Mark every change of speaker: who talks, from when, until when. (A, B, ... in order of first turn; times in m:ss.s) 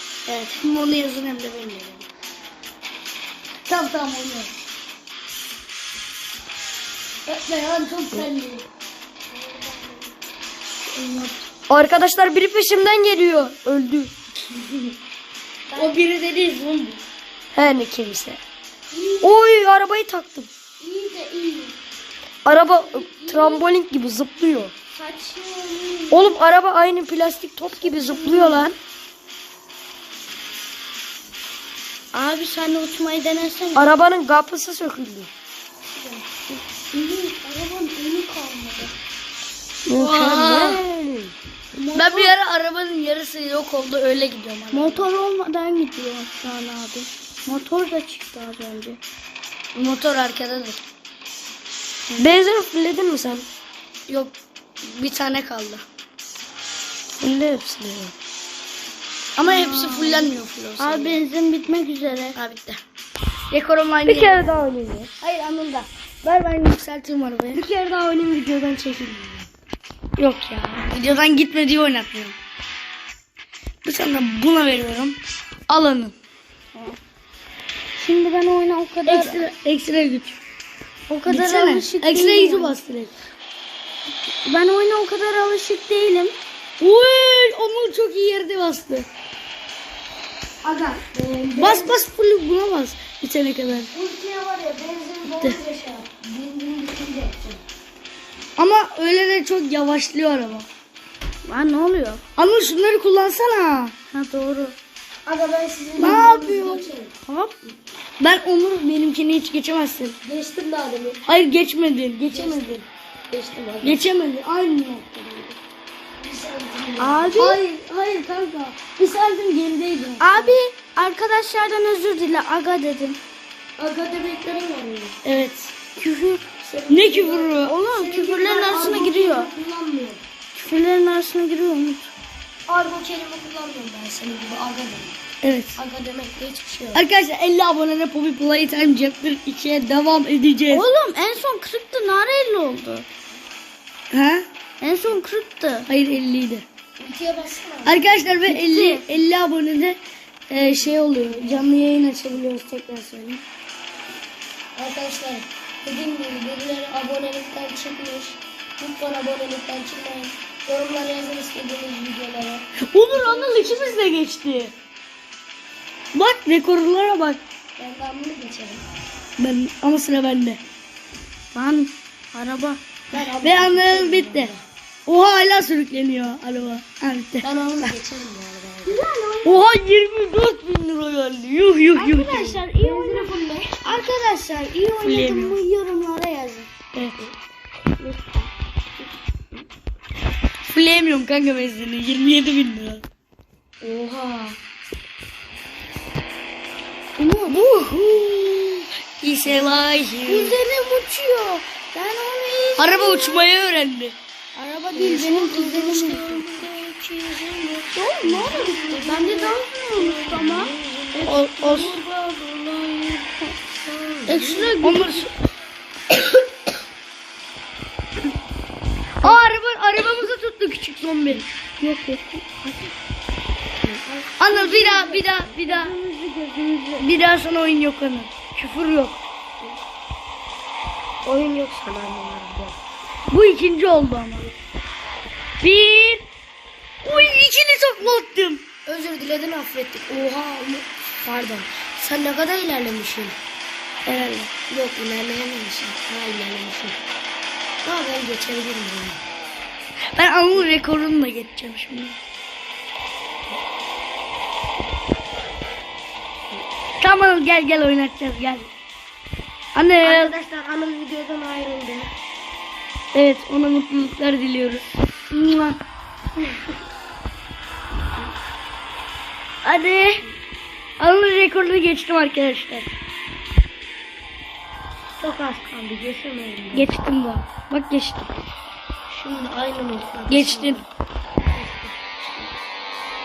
0:00.2-0:02.1 A
0:03.6-0:04.5 A
0:07.3-0:08.6 A
0:09.3-0:10.1 B
0:10.9-0:11.4 A
0:11.7-0:14.1 C
0:15.7-0:16.0 B
0:15.7-0:17.0 A
0:17.5-0:18.4 C
0:18.9-0:19.4 B
0:19.2-0:20.5 C
0:20.8-0:21.8 B
0:22.4-0:24.7 C
0:22.5-0:23.7 B
0:24.9-0:26.4 B
0:26.1-0:28.8 C
0:27.8-0:28.7 B
0:32.1-0:34.0 B
0:33.7-0:35.3 C
0:36.0-0:38.9 B
0:39.8-0:41.3 C
0:39.9-0:40.8 A
0:41.7-0:42.3 B
0:41.9-0:45.0 A
0:44.7-0:49.0 B
0:49.7-0:50.8 A
0:52.2-0:53.5 C
0:54.1-0:55.8 A
0:57.2-0:58.1 C
0:59.4-1:01.2 A
0:59.4-1:02.4 B
1:02.3-1:02.8 A
1:03.5-1:04.6 A
1:04.0-1:05.1 C
1:05.2-1:07.6 A
1:07.5-1:09.5 C
1:10.2-1:12.4 A
1:13.8-1:16.1 A
1:18.0-1:19.4 B
1:19.0-1:20.4 A
1:21.1-1:22.8 B
1:21.3-1:23.1 A
1:24.4-1:26.4 B
1:26.8-1:29.1 A
1:30.6-1:31.9 C
1:31.6-1:33.9 A
1:33.9-1:37.6 C
1:35.3-1:35.6 A
1:38.6-1:40.7 A
1:41.4-1:42.2 B
1:42.4-1:43.9 A
1:44.1-1:44.8 B
1:45.2-1:47.1 C
1:46.0-1:46.9 A
1:47.3-1:47.5 B
1:48.2-1:50.2 A
1:50.2-1:51.2 C
1:51.2-1:52.8 A
1:52.3-1:54.1 C
1:53.8-1:55.6 A
1:56.2-1:57.6 C
1:57.0-1:57.6 B
1:57.4-2:00.3 A
2:00.2-2:03.2 B
2:03.8-2:05.2 C
2:05.2-2:05.7 A
2:06.0-2:06.4 B
2:06.6-2:10.2 C
2:06.9-2:07.8 A
2:07.6-2:09.5 B
2:10.5-2:12.1 B
2:12.7-2:15.2 C
2:15.4-2:15.8 A
2:15.8-2:17.0 C
2:16.9-2:20.9 A
2:20.7-2:23.1 B
2:24.1-2:24.4 A
2:24.8-2:25.9 B
2:25.9-2:26.6 A
2:27.0-2:28.0 C
2:27.8-2:30.0 A
2:28.5-2:29.0 B
2:30.5-2:33.4 A
2:34.8-2:44.2 C
2:42.8-2:44.7 A
2:46.1-2:47.4 A
2:47.8-2:48.8 C
2:49.4-2:50.6 A
2:51.5-2:52.8 B
2:53.1-2:54.6 C
2:53.4-2:54.5 A
2:55.0-2:57.9 A
2:57.4-2:59.1 C
2:58.8-2:59.6 B
2:59.4-3:02.6 A
3:01.9-3:06.7 B
3:02.8-3:03.8 C
3:05.0-3:05.6 A
3:06.9-3:07.3 A
3:08.0-3:08.5 B
3:10.7-3:13.0 A
3:13.8-3:14.6 C
3:17.2-3:17.7 B
3:17.5-3:20.6 A
3:20.2-3:23.4 B
3:22.8-3:24.2 A
3:24.5-3:26.7 B
3:24.9-3:31.3 C
3:27.9-3:33.6 B
3:31.2-3:32.0 A
3:33.8-3:34.7 C
3:34.2-3:35.3 B
3:34.8-3:35.3 A
3:39.2-3:41.4 A
3:41.8-3:42.9 B
3:43.8-3:44.6 C
3:44.4-3:45.9 A
3:44.5-3:47.1 B
3:47.0-3:49.2 A
3:51.2-3:52.8 C
3:53.3-3:54.5 A
3:55.6-3:56.3 A
3:57.0-3:58.6 A
3:58.8-4:03.4 C
4:04.0-4:04.5 A
4:04.2-4:07.0 C
4:07.8-4:09.2 C
4:10.1-4:12.2 A
4:17.0-4:18.7 A
4:19.7-4:20.3 A
4:20.0-4:22.1 C
4:23.1-4:25.8 A
4:29.6-4:30.2 A
4:31.0-4:32.9 A
4:35.2-4:36.9 C
4:36.7-4:38.3 A
4:39.1-4:40.9 C
4:40.3-4:40.8 A
4:41.5-4:42.5 C